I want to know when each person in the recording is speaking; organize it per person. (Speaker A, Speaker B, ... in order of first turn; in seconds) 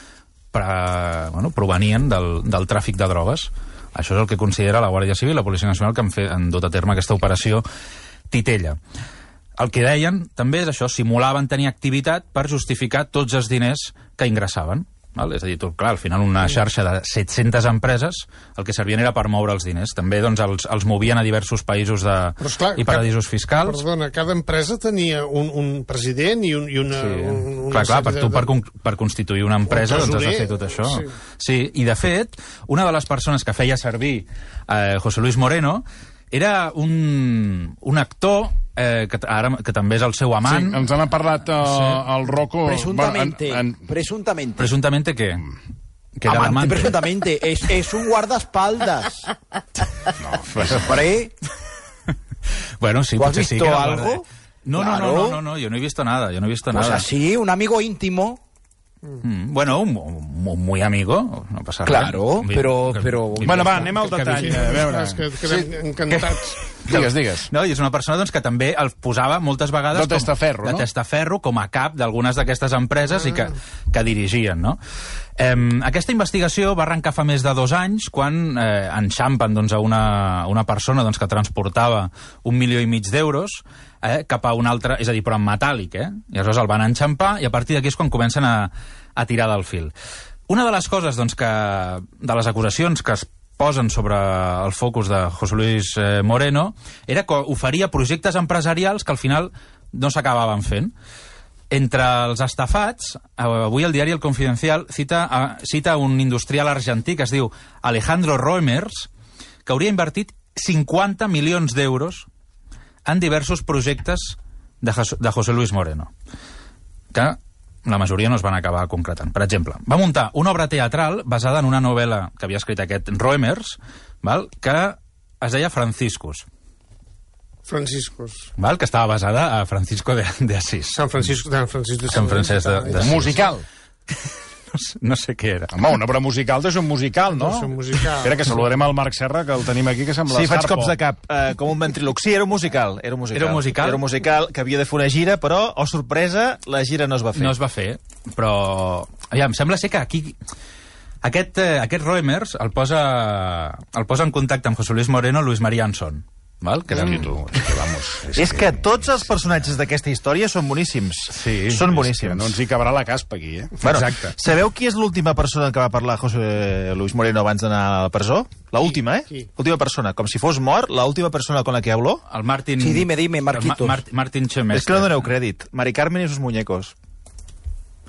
Speaker A: 0.5-7.7, 8.3-8.8, 9.6-23.8, 26.9-40.8, 41.6-42.0, 44.6-45.4, 46.2-47.1, 52.8-57.1, 59.2-64.2, 66.1-74.8, 75.4-89.9, 90.5-100.9, 101.7-109.1, 109.7-112.3, 113.1-116.1, 117.1-126.5, 128.6-131.1, 132.1-133.4, 134.7-135.8, 143.3-144.0, 147.4-150.4, 151.2-157.7, 161.3-161.8, 163.8-164.4, 172.3-175.3
Speaker B: 22.4-23.1, 23.6-28.5, 29.7-31.1, 64.3-66.6, 127.7-128.5, 130.9-133.4, 137.3-138.6
Speaker C: 40.4-43.9, 50.2-51.0, 63.4-65.7, 66.9-67.5, 69.9-70.9, 132.9-133.7, 135.7-141.0, 156.9-158.8, 161.7-163.8
Speaker D: 42.6-44.7, 46.3-49.2, 50.7-51.3, 53.2-55.4, 56.7-58.4, 61.9-64.5, 172.8-174.0
Speaker E: 140.3-147.6, 158.4-162.6, 163.8-172.2, 174.7-176.9